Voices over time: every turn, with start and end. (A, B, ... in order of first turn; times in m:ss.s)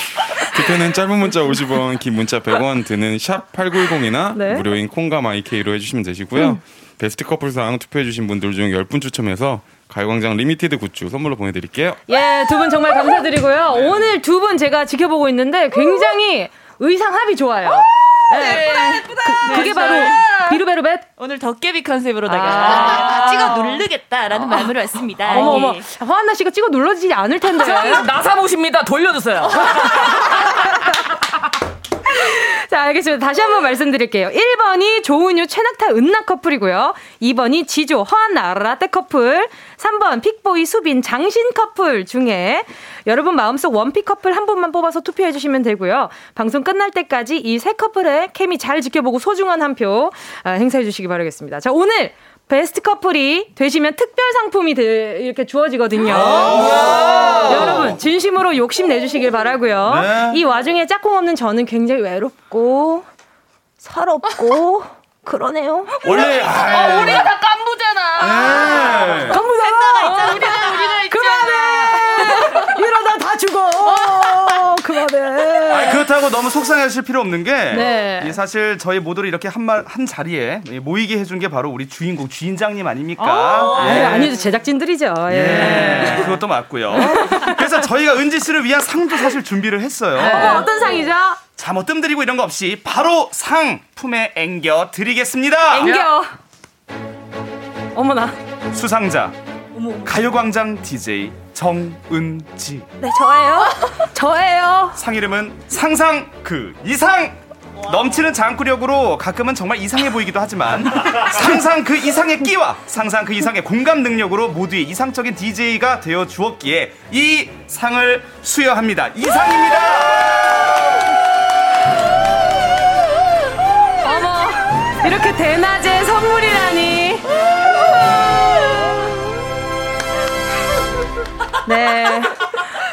0:00.4-0:12.0 A
0:04.3-0:04.6 B
0:12.1-0:21.1 B
0:18.3-0:20.6 C
0:19.5-0:19.9 D
0:21.2-0:25.8 C
0:22.3-0:23.5 B
0:22.9-0:23.4 D
0:25.3-0:25.7 D
0:25.3-0:28.1 B
0:27.6-0:30.5 D
0:29.6-0:30.7 B
0:32.1-1:03.1 B
0:56.1-0:57.9 E
0:56.4-0:57.8 D
0:59.9-1:00.4 E
1:03.8-1:07.0 B
1:06.0-1:12.8 D
1:06.0-1:07.3 E
1:08.2-1:09.4 E
1:08.4-1:16.0 B
1:10.0-1:10.5 C
1:15.7-1:24.3 E
1:17.7-1:18.4 B
1:23.2-1:26.4 B
1:23.3-1:24.3 D
1:25.3-1:30.6 E
1:25.5-1:26.3 D
1:26.9-1:27.8 B
1:30.2-1:31.0 D
1:30.2-1:31.4 B
1:31.6-1:35.9 E
1:35.7-1:36.3 B
1:35.8-1:36.1 D
1:38.0-1:38.4 B
1:38.7-1:39.3 E
1:40.0-1:42.9 E
1:43.0-1:45.0 B
1:45.0-1:47.4 E
1:47.8-1:48.1 C
1:47.9-2:00.7 E
2:04.0-2:07.3 B
2:11.6-2:12.5 B